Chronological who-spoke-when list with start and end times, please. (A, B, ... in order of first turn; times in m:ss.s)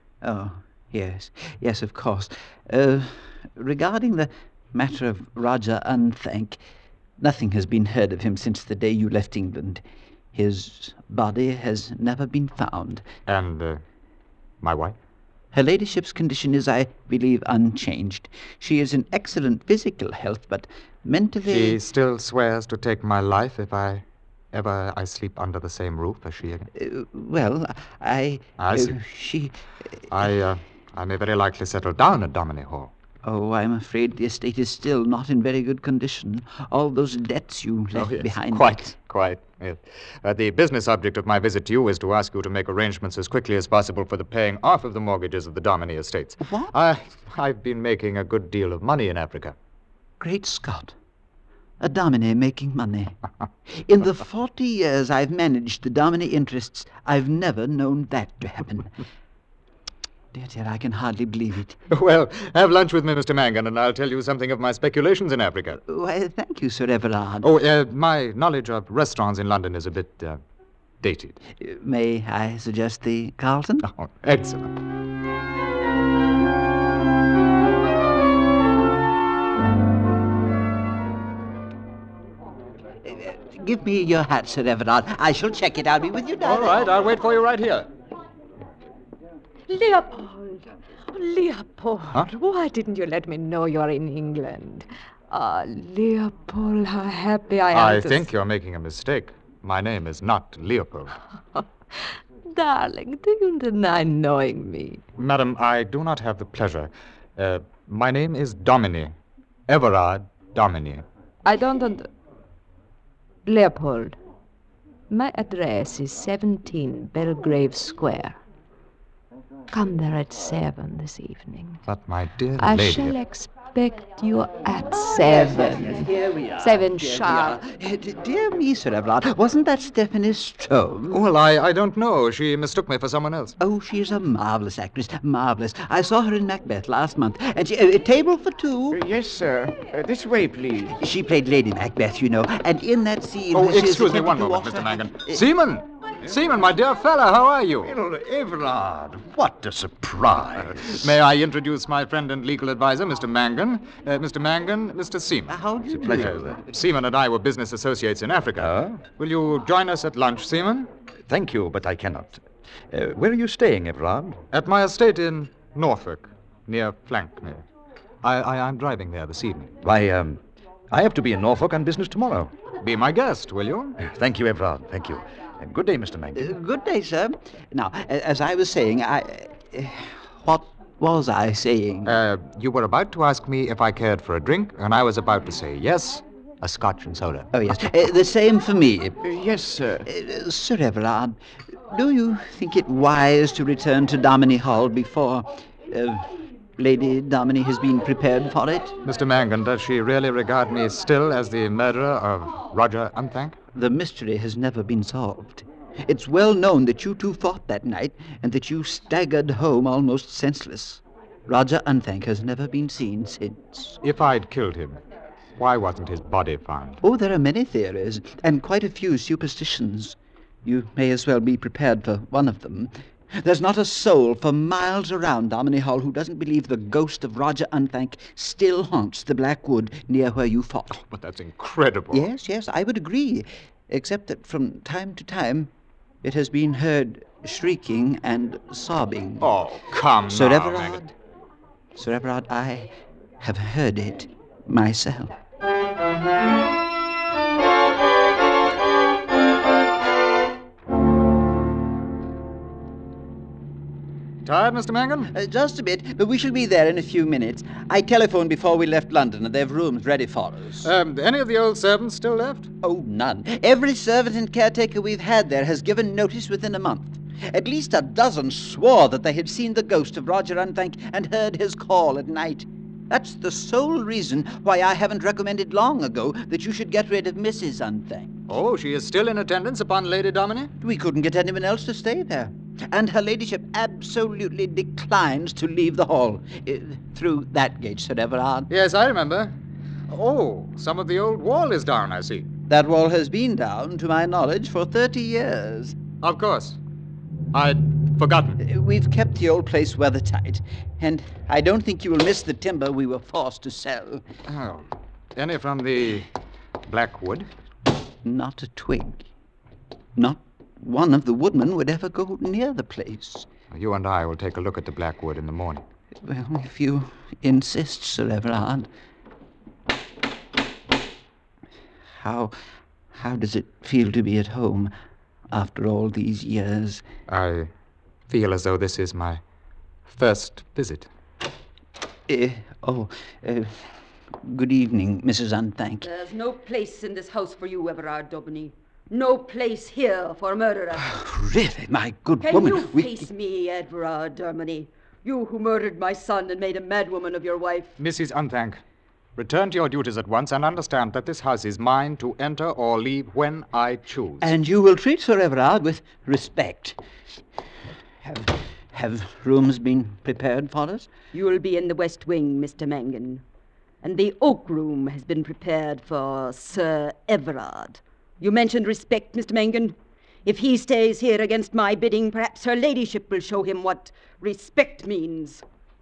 0:00.2-0:06.6 A
0:07.2-0:13.0 A
0:13.2-0:13.8 B
0:14.6-0:15.0 B
0:15.5-0:21.8 A
0:21.4-0:26.7 B
0:26.8-0:29.5 A
0:28.6-0:29.0 B
0:30.1-0:32.9 B
0:33.2-0:38.8 A
0:37.9-0:49.5 B
0:46.4-0:46.7 A
0:50.2-0:51.0 A
0:51.8-0:59.0 A
1:00.3-1:01.8 A
1:01.9-1:05.8 B
1:05.9-1:07.5 A
1:07.4-1:10.4 B
1:11.0-1:11.4 B
1:11.6-1:13.9 A
1:13.8-1:14.8 B
1:23.0-1:26.8 A
1:26.4-1:27.9 B
1:29.7-1:38.3 C
1:37.7-1:41.1 B
1:41.5-1:45.0 C
1:45.2-1:49.1 B
1:49.7-1:51.0 B
1:51.4-1:52.1 C
1:53.4-1:54.2 C
1:55.1-1:58.4 C
1:59.7-2:01.8 C
2:01.9-2:03.1 B
2:02.6-2:06.1 C
2:05.0-2:11.2 A
2:06.6-2:07.6 C
2:11.1-2:13.5 B
2:13.6-2:19.0 A
2:18.9-2:21.0 D
2:21.0-2:25.4 A
2:23.5-2:27.9 B
2:27.8-2:31.1 E
2:30.6-2:35.6 B
2:35.5-2:36.4 A
2:35.8-2:36.6 E
2:36.2-2:40.9 B
2:38.6-2:39.0 E
2:41.3-2:44.4 E
2:44.5-2:47.6 B
2:48.2-2:49.7 B
2:49.8-2:52.5 E
2:52.8-2:54.0 B
2:54.0-2:56.5 E
2:56.4-3:02.2 A
3:02.1-3:07.8 B
3:07.5-3:09.2 A
3:09.2-3:10.0 D
3:10.1-3:19.0 A
3:19.0-3:23.6 B
3:23.7-3:34.0 A
3:34.0-3:35.0 B
3:35.6-3:37.0 B
3:37.0-3:51.0 A
3:51.0-3:52.3 B
3:52.1-3:59.6 A
3:59.4-4:01.0 B
4:00.2-4:01.1 A
4:01.9-4:05.3 A
4:14.4-4:15.3 B
4:15.3-4:20.9 A
4:20.8-4:22.7 B
4:22.8-4:38.4 A
4:38.5-4:40.7 B
4:40.8-4:48.7 A
4:48.7-4:49.5 B
4:50.1-4:52.4 B
4:52.7-4:56.0 A
4:56.2-4:56.8 B
4:57.5-4:58.6 B
4:58.6-5:04.2 A
5:04.5-5:06.3 B
5:06.8-5:07.5 B
5:08.2-5:09.3 A
5:10.2-5:13.5 A
5:13.7-5:15.8 B
5:16.2-5:18.9 A
5:22.1-5:22.5 A
5:23.1-5:24.9 A
5:25.5-5:27.0 A
5:27.3-5:27.7 B
5:28.3-5:29.4 B
5:30.1-5:31.1 B
5:32.3-5:36.1 A
5:36.0-5:41.1 F
5:41.1-5:43.2 A
5:42.4-5:47.9 F
5:48.0-5:48.8 B
5:49.4-5:54.5 B
5:54.4-5:57.0 A
5:58.2-6:01.1 A
6:01.3-6:03.4 F
6:04.0-6:15.6 F